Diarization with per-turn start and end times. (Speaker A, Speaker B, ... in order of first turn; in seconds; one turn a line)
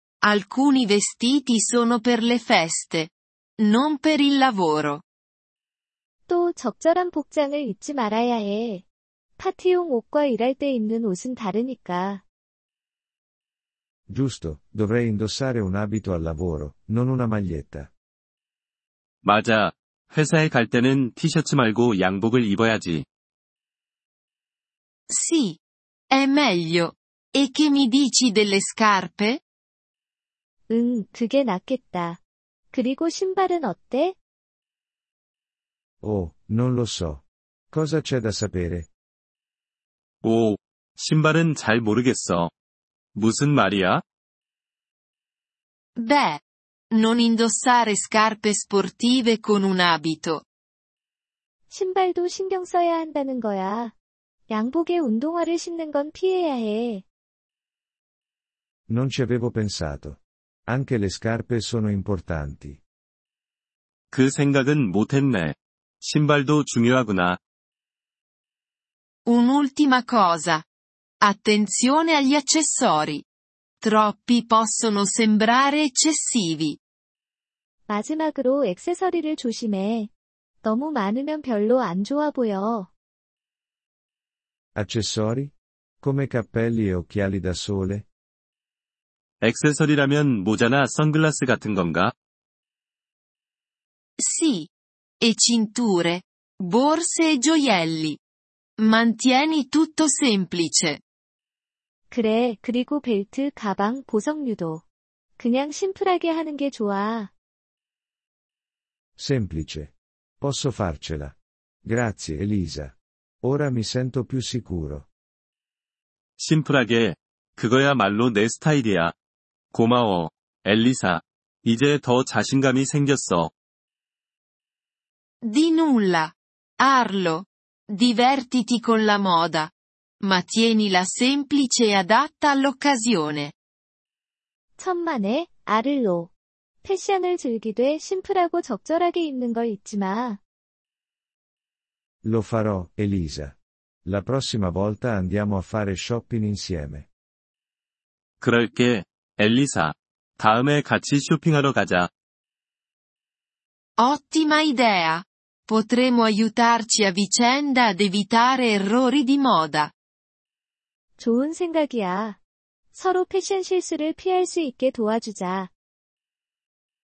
Speaker A: 0.2-5.0
Speaker B: 6.3-8.8
Speaker B: 9.4-12.2
Speaker C: 14.1-17.9
Speaker D: 19.2-23.0
Speaker A: 25.1-25.6
Speaker A: 26.1-29.4
Speaker B: 30.7-32.2
Speaker B: 32.7-34.1
Speaker C: 36.0-38.9
Speaker D: 40.2-42.5
Speaker D: 43.1-44.0
Speaker A: 46.0-46.4
Speaker A: 46.9-50.4
Speaker B: 51.7-53.9
Speaker B: 54.5-57.0
Speaker C: 58.9-62.8
Speaker D: 64.1-67.4
Speaker A: 69.2-70.6
Speaker A: 71.2-73.2
Speaker A: 73.8-76.8
Speaker B: 77.9-80.1
Speaker B: 80.6-82.9
Speaker C: 84.8-88.0
Speaker D: 89.4-92.1
Speaker A: 94.2-94.7
Speaker A: 95.2-98.2
Speaker A: 98.8-101.0
Speaker B: 102.1-104.8
Speaker B: 105.4-107.3
Speaker C: 109.2-115.1
Speaker D: 116.4-119.1
Speaker D: 119.7-123.5
Speaker A: 125.4-133.5
Speaker B: 134.8-136.3
Speaker B: 136.8-140.4
Speaker C: 142.2-147.1
Speaker D: 148.4-152.1
Speaker A: 154.0-159.9
Speaker B: 161.2-162.4
Speaker B: 162.9-165.7